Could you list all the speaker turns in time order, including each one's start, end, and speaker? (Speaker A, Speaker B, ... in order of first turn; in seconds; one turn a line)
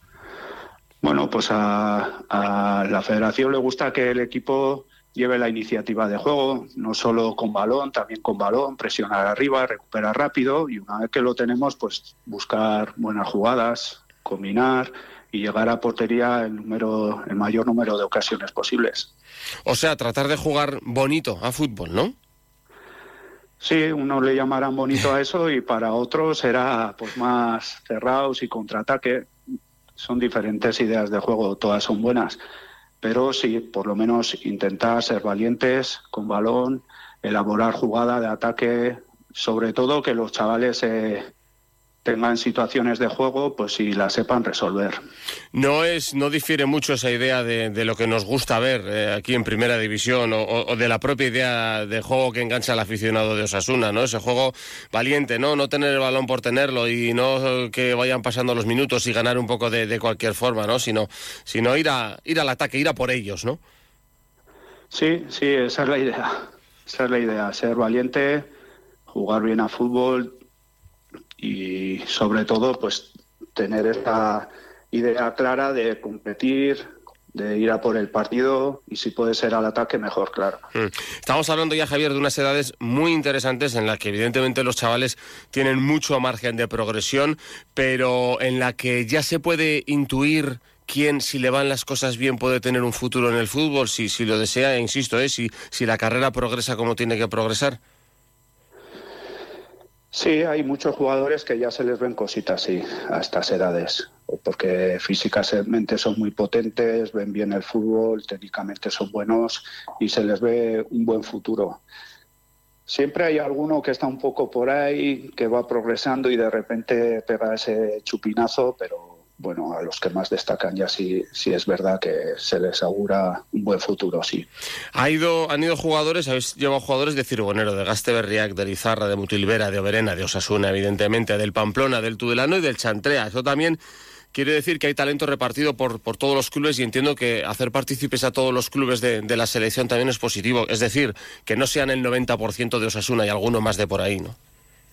Speaker A: 1.0-19.1
Speaker B: 19.6-22.1
Speaker A: 23.6-29.3
Speaker A: 30.0-32.4
Speaker A: 33.0-41.3
Speaker A: 42.0-45.0
Speaker B: 45.5-63.6
Speaker A: 64.9-68.5
Speaker A: 69.1-70.3
Speaker A: 71.4-80.6
Speaker B: 80.7-97.8
Speaker A: 100.1-111.8
Speaker A: 112.9-124.5
Speaker B: 124.9-133.8
Speaker B: 134.3-144.4